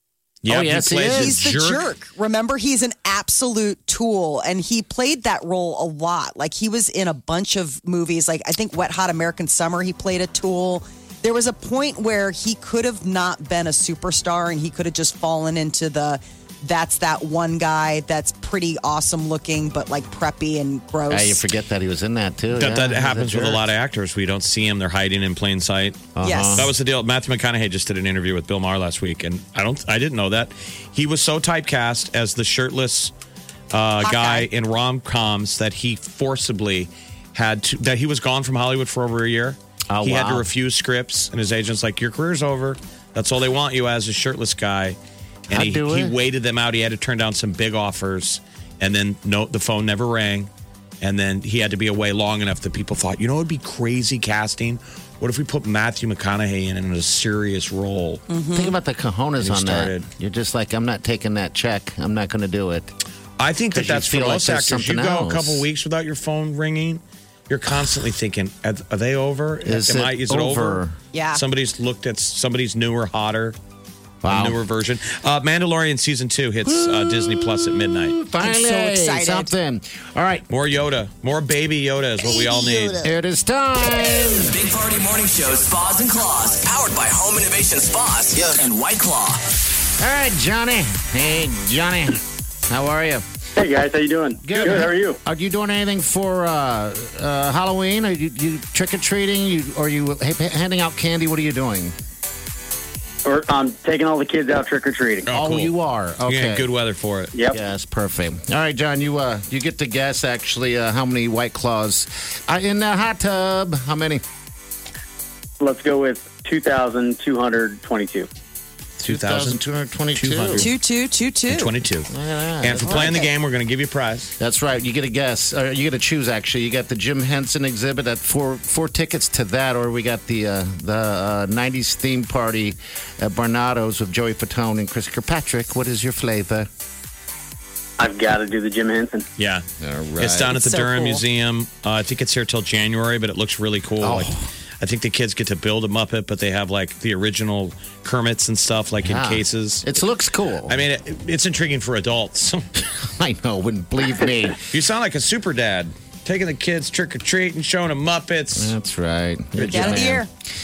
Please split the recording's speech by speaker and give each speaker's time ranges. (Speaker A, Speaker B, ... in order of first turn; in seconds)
Speaker A: 0.4-1.9, 22.6-33.1, 33.7-45.0, 45.5-50.5, 51.0-58.2, 59.4-60.1, 63.4-70.8, 71.3-73.6, 74.3-78.2, 80.5-83.0, 105.3-105.7, 106.3-107.3, 119.0-119.6, 120.1-120.7, 121.5-122.1, 122.6-124.3, 139.4-139.6, 140.2-149.9, 150.7-152.6, 154.7-158.8, 159.6-160.2
Speaker B: 0.5-1.5, 21.1-23.6, 26.2-26.7, 39.9-40.5, 45.5-46.1, 58.5-62.9, 63.7-65.6, 69.6-71.0, 74.2-74.6, 76.6-80.5, 83.0-84.6, 90.0-93.2, 94.4-102.0, 105.3-106.7, 107.5-114.2, 119.0-120.7, 122.1-123.2, 124.4-136.7, 139.8-140.6, 144.0-144.5, 149.0-150.8, 152.8-154.6, 158.6-160.3
Speaker C: 1.1-21.4, 26.2-26.7, 34.0-34.5, 58.3-58.7, 71.1-71.4, 78.4-79.5, 120.6-121.7, 122.8-123.3, 140.5-141.2, 159.7-160.3
Speaker D: 84.3-89.4
Speaker E: 93.6-95.2, 103.2-105.3, 115.6-118.3, 138.0-139.3